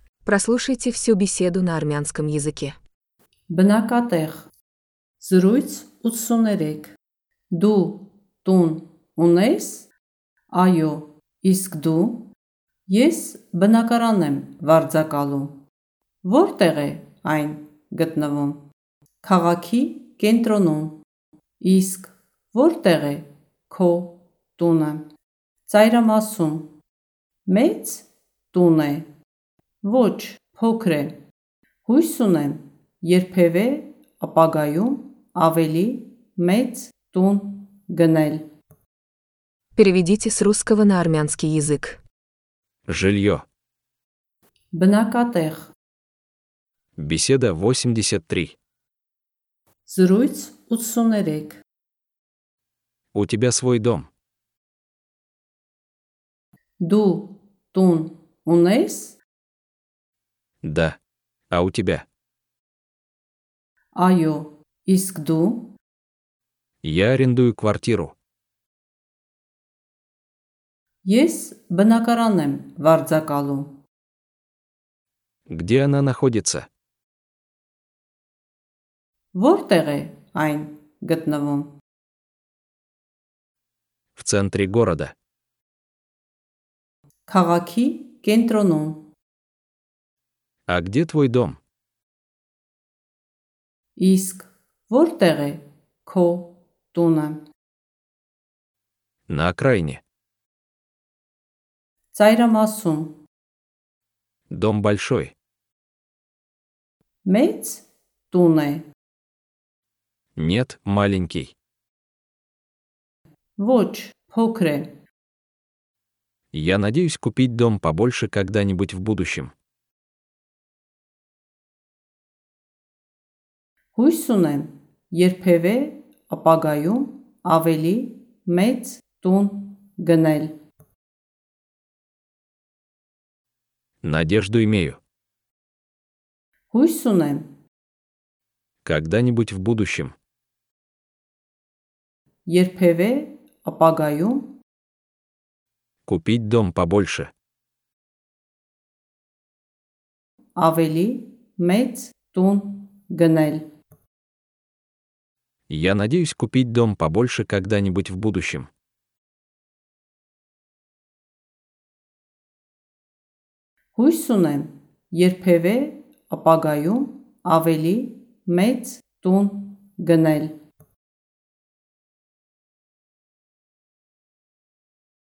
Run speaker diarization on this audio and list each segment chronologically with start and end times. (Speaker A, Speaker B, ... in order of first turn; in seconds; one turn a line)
Speaker A: 0.3-2.8
Speaker B: 3.5-4.5
Speaker B: 5.2-6.9
Speaker B: 7.5-9.9
Speaker B: 10.5-12.3
Speaker B: 12.9-15.6
Speaker B: 16.2-18.6
Speaker B: 19.2-21.0
Speaker B: 21.6-25.1
Speaker B: 25.7-26.7
Speaker B: 27.5-29.1
Speaker B: 29.8-31.1
Speaker B: 31.9-38.5
Speaker A: 39.8-42.0
Speaker C: 42.9-43.4
Speaker B: 44.7-45.7
Speaker C: 47.0-48.6
Speaker B: 49.9-51.6
Speaker C: 53.1-54.1
Speaker B: 56.8-59.2
Speaker C: 60.6-61.0
Speaker C: 61.5-62.1
Speaker B: 64.0-65.7
Speaker C: 66.8-68.2
Speaker B: 71.0-73.7
Speaker C: 75.5-76.7
Speaker B: 79.3-81.7
Speaker C: 84.2-85.1
Speaker B: 87.3-89.0
Speaker C: 90.7-91.6
Speaker B: 94.0-97.4
Speaker C: 99.3-100.0
Speaker B: 102.1-103.2
Speaker C: 104.5-105.3
Speaker B: 107.2-108.9
Speaker C: 110.4-111.5
Speaker B: 113.6-114.9
Speaker C: 116.5-119.5
Speaker B: 124.0-130.6
Speaker C: 134.0-135.0
Speaker B: 136.7-137.5
Speaker C: 138.8-140.2
Speaker B: 142.5-144.6
Speaker C: 146.1-147.3
Speaker B: 150.6-153.7
Speaker C: 155.7-158.7
Speaker B: 164.0-170.5